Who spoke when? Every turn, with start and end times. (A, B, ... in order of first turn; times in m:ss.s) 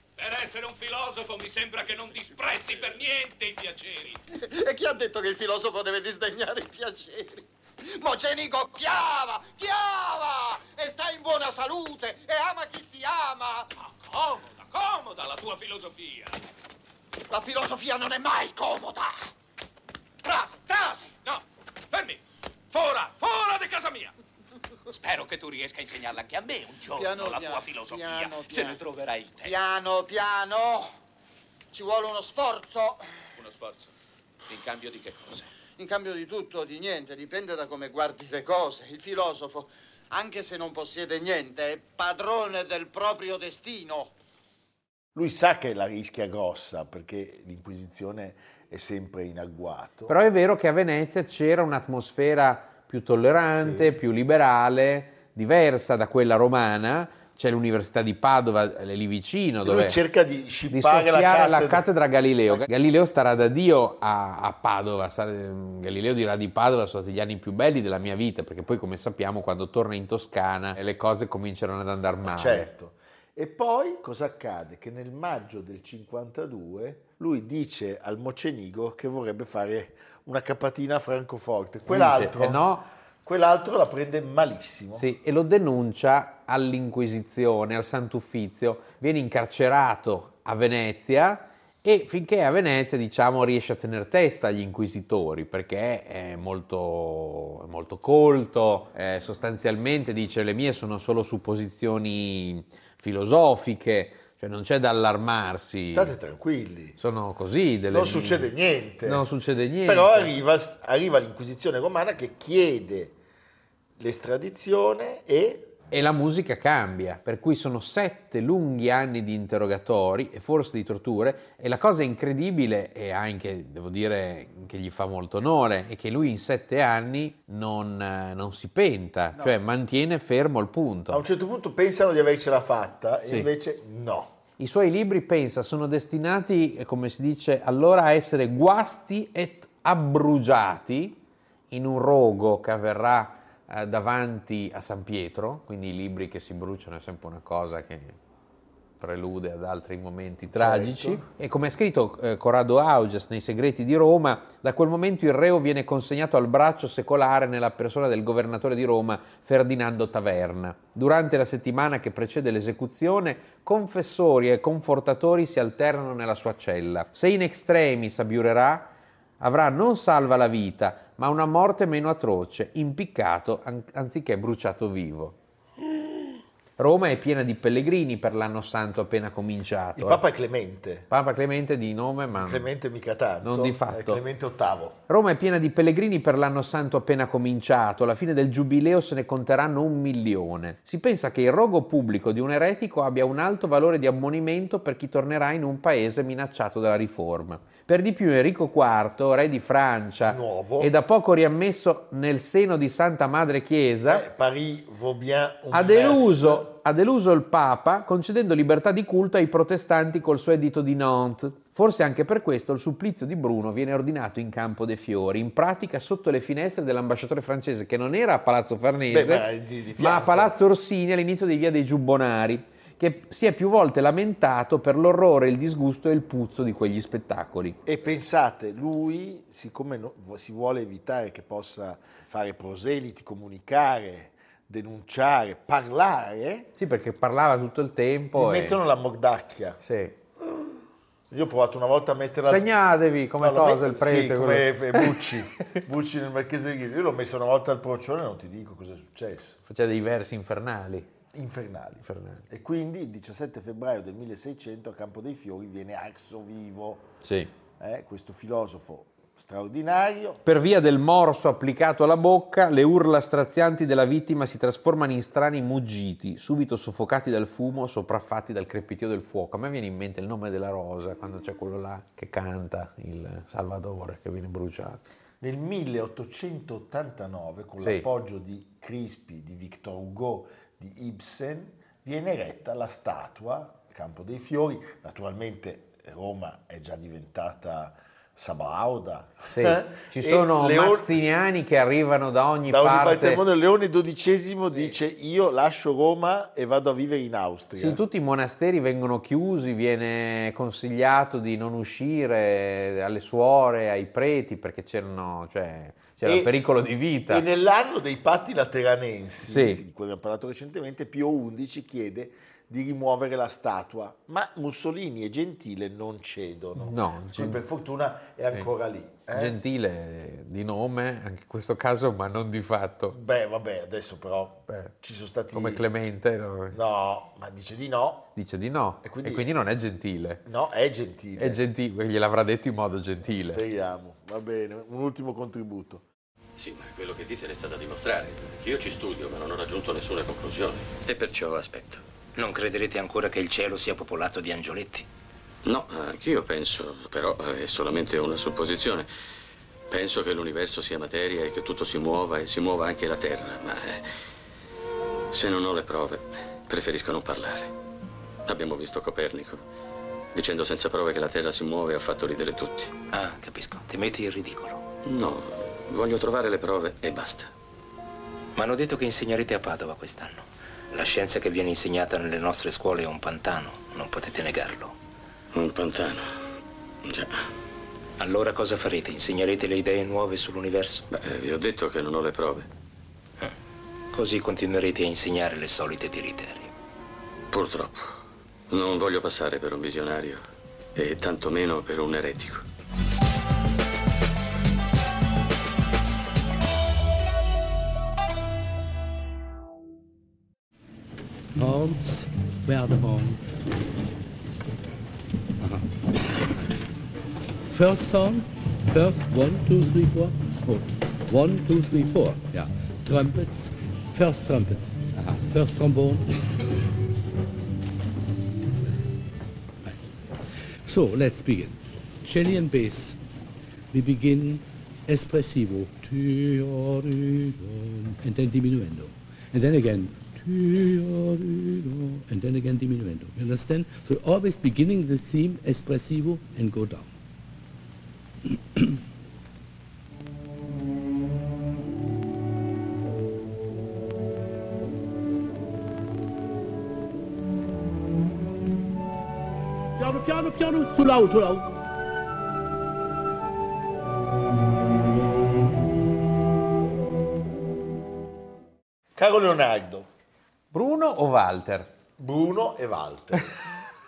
0:00.2-0:04.2 A
0:04.4-0:13.7 B
0:13.8-0:16.4 A
0:17.3-0:19.1 B
0:20.2-0:21.1 B
0:21.2-0:22.2 A
0:22.7-0:24.1 A
0:24.9-0:29.6 A
0:26.9-0:28.8 B
0:29.4-0:30.9 B
0:31.7-0:33.0 B
0:33.4-0:33.9 A
0:34.5-0:35.5 A
0:35.8-0:44.1 B
0:45.1-0:50.1 C
0:50.1-1:00.0 D
0:53.5-0:53.9 C
0:59.6-1:01.8 C
1:00.7-1:12.7 D
1:12.2-1:22.6 C
1:21.9-1:22.8 D
1:23.2-1:25.1 C
1:25.0-1:46.1 D
1:45.9-1:47.0 C
1:47.0-1:48.5 D
1:47.9-1:49.2 C
1:49.0-1:50.3 D
1:49.8-1:53.2 C
1:54.0-1:55.8 C
1:55.9-2:11.2 D
2:11.1-2:14.3 C
2:14.6-2:21.2 D
2:21.7-2:28.2 D
2:29.0-2:55.4 D
2:30.5-2:31.3 C
2:56.8-3:00.2 D
3:00.0-3:01.1 C
3:01.1-3:02.7 D
3:02.3-3:05.0 C
3:03.4-3:04.2 D
3:05.1-3:24.2 D
3:20.2-3:20.9 C
3:24.0-3:26.7 C
3:25.7-3:39.5 D
3:39.1-3:40.5 C
3:40.0-3:47.8 D
3:47.8-3:56.7 C
3:56.8-3:58.8 D
3:58.3-3:59.8 C
3:59.8-4:00.1 D
4:01.3-4:02.7 C
4:02.4-4:05.4 D
4:03.4-4:09.6 C
4:09.7-4:11.1 D
4:11.3-4:17.1 C
4:12.0-4:12.4 D
4:17.2-4:17.5 D
4:17.8-4:20.4 C
4:20.4-4:35.0 D
4:35.4-4:51.2 C
4:37.8-4:38.0 D
4:49.5-4:53.4 D
4:52.7-4:58.0 C
4:57.8-5:07.4 D
5:06.2-5:06.5 C
5:07.3-5:19.6 C
5:09.4-5:09.8 D
5:16.8-5:17.6 D
5:19.3-5:23.2 D
5:23.1-5:25.8 C
5:25.5-5:26.8 D
5:26.7-5:28.3 C
5:28.4-5:30.4 D
5:29.0-5:29.5 C
5:30.4-5:31.6 C
5:31.4-5:33.6 D
5:33.2-5:36.0 C
5:36.6-5:42.0 E
5:42.4-5:45.0 F
5:45.6-5:49.1 E
5:49.9-5:54.0 E
5:55.3-5:57.7 E
5:58.4-5:59.6 E
6:00.3-6:02.9 E
6:03.1-6:04.8 F
6:05.0-6:07.5 E
6:08.6-6:14.9 F
6:15.5-6:16.3 E
6:17.0-6:17.4 E
6:18.2-6:21.1 F
6:21.1-6:22.7 E
6:24.1-6:26.7 F
6:27.5-6:28.1 E
6:28.7-6:30.4 E
6:30.9-6:32.6 E
6:41.5-6:43.6 G
6:45.6-6:45.8 G
6:47.7-6:56.3 G
7:00.8-7:03.2 G
7:03.9-7:17.1 G
7:30.0-7:31.7 G
7:39.2-7:40.1 C
7:40.7-7:41.9 D
7:42.2-7:43.7 C